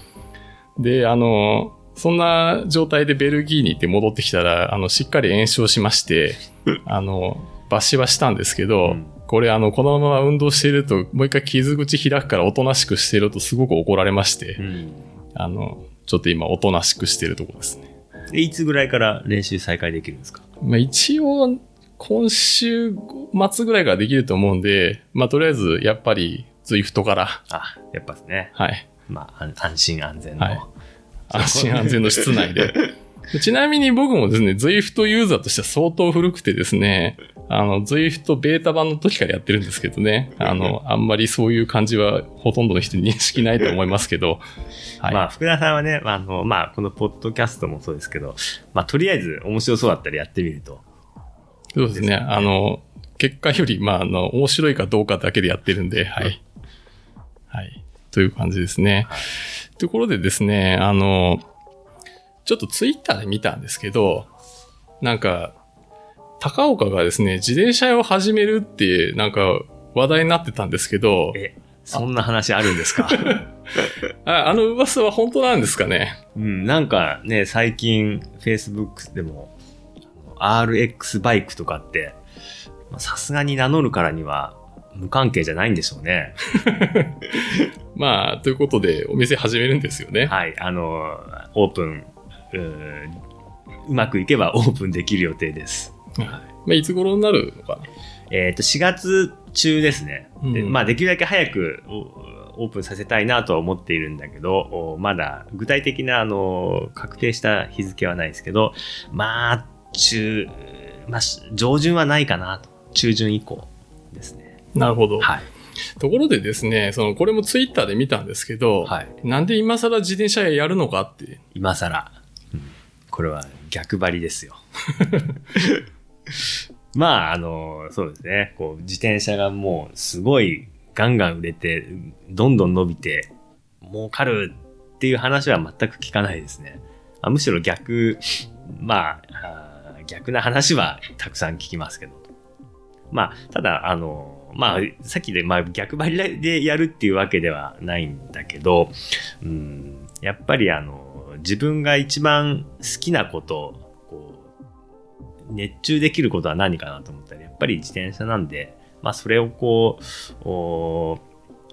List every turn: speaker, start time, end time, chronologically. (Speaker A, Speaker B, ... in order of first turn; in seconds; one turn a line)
Speaker A: 0.8-14.6
Speaker B: 8.8-9.1
Speaker B: 14.6-15.1
Speaker A: 15.3-17.8
Speaker B: 18.3-20.4
Speaker A: 20.6-27.4
Speaker B: 27.5-28.5
Speaker A: 28.6-28.9
Speaker B: 29.1-30.7
Speaker A: 31.3-32.8
Speaker B: 31.3-32.4
Speaker A: 33.3-44.4
Speaker B: 45.1-50.8
Speaker A: 51.7-56.4
Speaker B: 51.9-52.5
Speaker A: 57.5-59.2
Speaker A: 59.8-61.4
Speaker A: 62.4-64.3
Speaker A: 65.0-65.5
Speaker A: 66.4-71.4
Speaker B: 71.3-73.4
Speaker A: 72.9-76.2
Speaker B: 76.3-79.5
Speaker B: 80.2-82.2
Speaker B: 82.9-86.4
Speaker A: 86.5-90.3
Speaker B: 90.2-93.2
Speaker B: 93.8-96.4
Speaker A: 96.2-97.9
Speaker B: 98.3-114.5
Speaker A: 100.4-100.8
Speaker A: 114.7-115.3
Speaker B: 115.2-115.5
Speaker A: 116.0-121.4
Speaker B: 118.8-119.1
Speaker B: 121.5-124.6
Speaker A: 125.0-125.3
Speaker B: 125.5-125.8
Speaker B: 126.9-133.3
Speaker B: 133.8-142.3
Speaker B: 143.1-154.4
Speaker B: 155.5-161.2